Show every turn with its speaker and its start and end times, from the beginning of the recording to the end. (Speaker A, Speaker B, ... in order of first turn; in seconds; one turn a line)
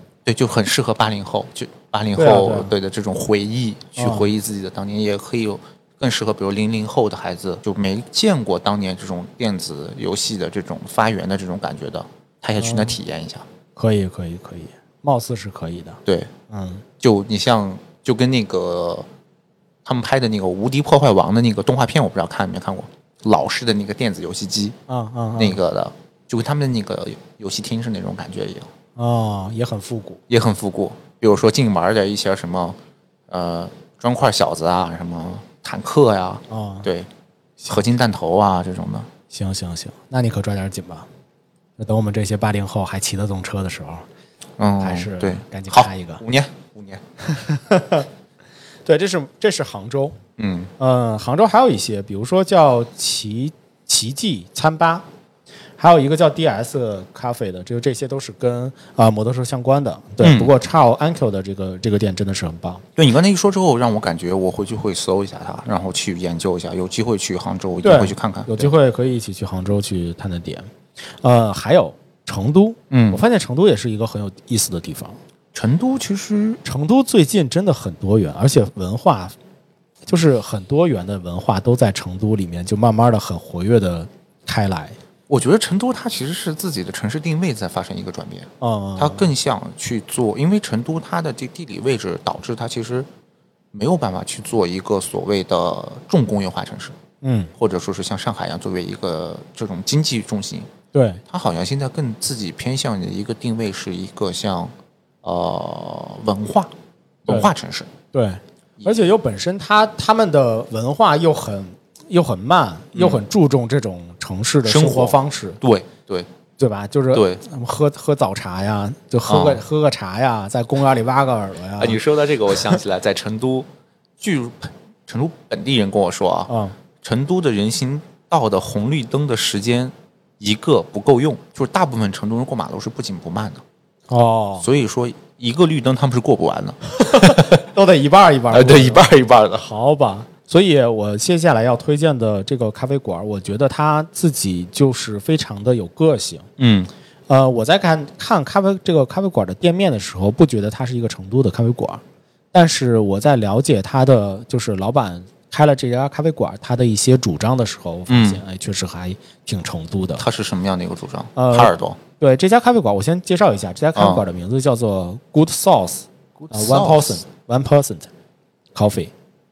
Speaker A: 0.3-13.5
Speaker B: 2.2-2.7
Speaker B: 4.0-4.3
Speaker B: 12.6-13.0
Speaker B: 13.8-16.9
Speaker A: 16.1-16.3
Speaker A: 17.0-19.1
Speaker A: 19.9-24.8
Speaker B: 24.9-25.6
Speaker A: 25.4-28.7
Speaker B: 29.0-30.2
Speaker A: 30.3-32.8
Speaker A: 33.3-37.1
Speaker B: 36.5-36.9
Speaker B: 37.6-37.9
Speaker A: 37.7-39.1
Speaker B: 39.3-41.1
Speaker B: 41.8-44.1
Speaker A: 44.6-47.0
Speaker B: 44.8-46.2
Speaker B: 47.2-48.1
Speaker B: 48.9-50.2
Speaker A: 50.4-50.7
Speaker B: 50.8-55.0
Speaker B: 55.8-62.8
Speaker A: 60.2-60.5
Speaker A: 63.0-68.7
Speaker B: 67.8-70.7
Speaker B: 71.2-75.2
Speaker A: 72.9-73.2
Speaker A: 75.5-76.6
Speaker B: 76.7-79.3
Speaker B: 80.1-85.0
Speaker A: 85.3-93.1
Speaker B: 88.6-89.3
Speaker A: 93.7-97.0
Speaker B: 97.2-97.5
Speaker A: 97.6-100.7
Speaker B: 100.9-101.2
Speaker A: 101.3-106.7
Speaker A: 107.2-107.9
Speaker B: 108.1-115.6
Speaker A: 112.9-113.2
Speaker A: 114.6-116.3
Speaker B: 116.6-122.8
Speaker A: 117.1-117.4
Speaker A: 119.3-119.6
Speaker A: 121.8-123.7
Speaker A: 124.2-126.5
Speaker B: 126.5-126.8
Speaker A: 127.0-133.6
Speaker B: 134.1-134.7
Speaker A: 134.6-137.7
Speaker B: 137.0-146.5
Speaker A: 138.5-139.7
Speaker A: 146.6-146.9
Speaker B: 147.3-152.0
Speaker B: 152.5-160.2
Speaker A: 158.1-158.4
Speaker A: 160.2-162.0
Speaker B: 161.4-168.1
Speaker A: 163.9-164.2
Speaker A: 166.4-167.2
Speaker B: 168.8-169.1